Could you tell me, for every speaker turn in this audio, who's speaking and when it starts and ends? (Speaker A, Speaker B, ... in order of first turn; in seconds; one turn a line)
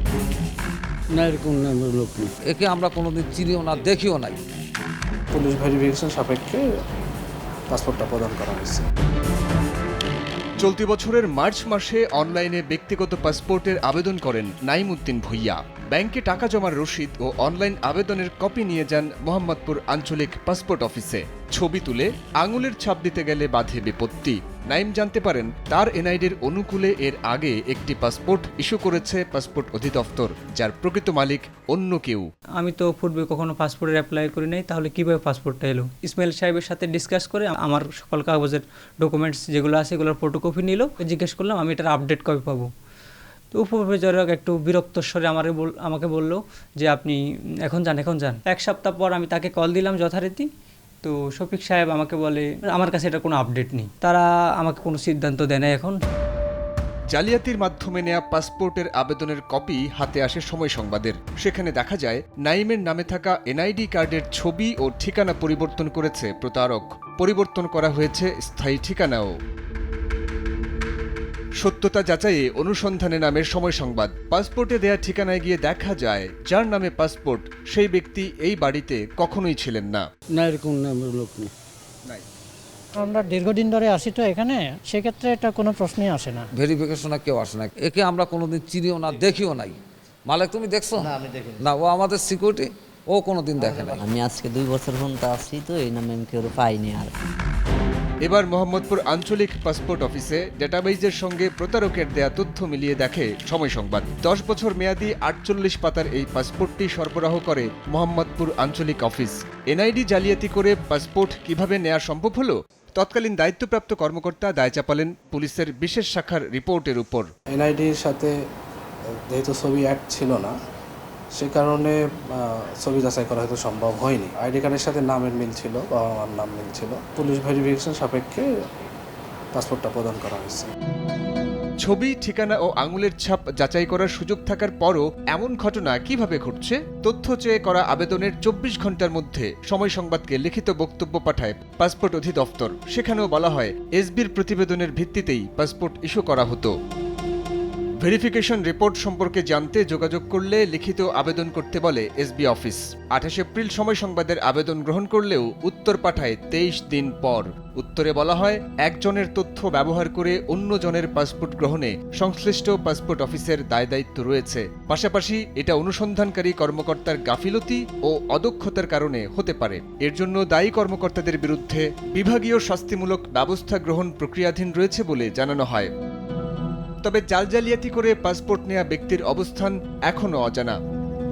Speaker A: 1.1-2.3
Speaker B: 2.5-4.4
Speaker C: 5.3-6.6
Speaker C: 7.7-8.8
Speaker D: 10.6-32.3
Speaker E: 32.6-42.7
Speaker E: 43.5-50.5
Speaker E: 51.0-56.0
Speaker D: 57.1-69.3
Speaker D: 71.6-80.0
Speaker A: 80.3-81.5
Speaker F: 83.0-86.5
Speaker B: 86.6-94.0
Speaker G: 94.0-97.1
Speaker D: 98.2-117.3
Speaker C: 117.5-118.3
Speaker C: 119.3-120.5
Speaker C: 121.4-128.5
Speaker C: 129.5-130.7
Speaker D: 131.8-146.7
Speaker D: 148.0-175.9
Speaker D: 177.0-180.8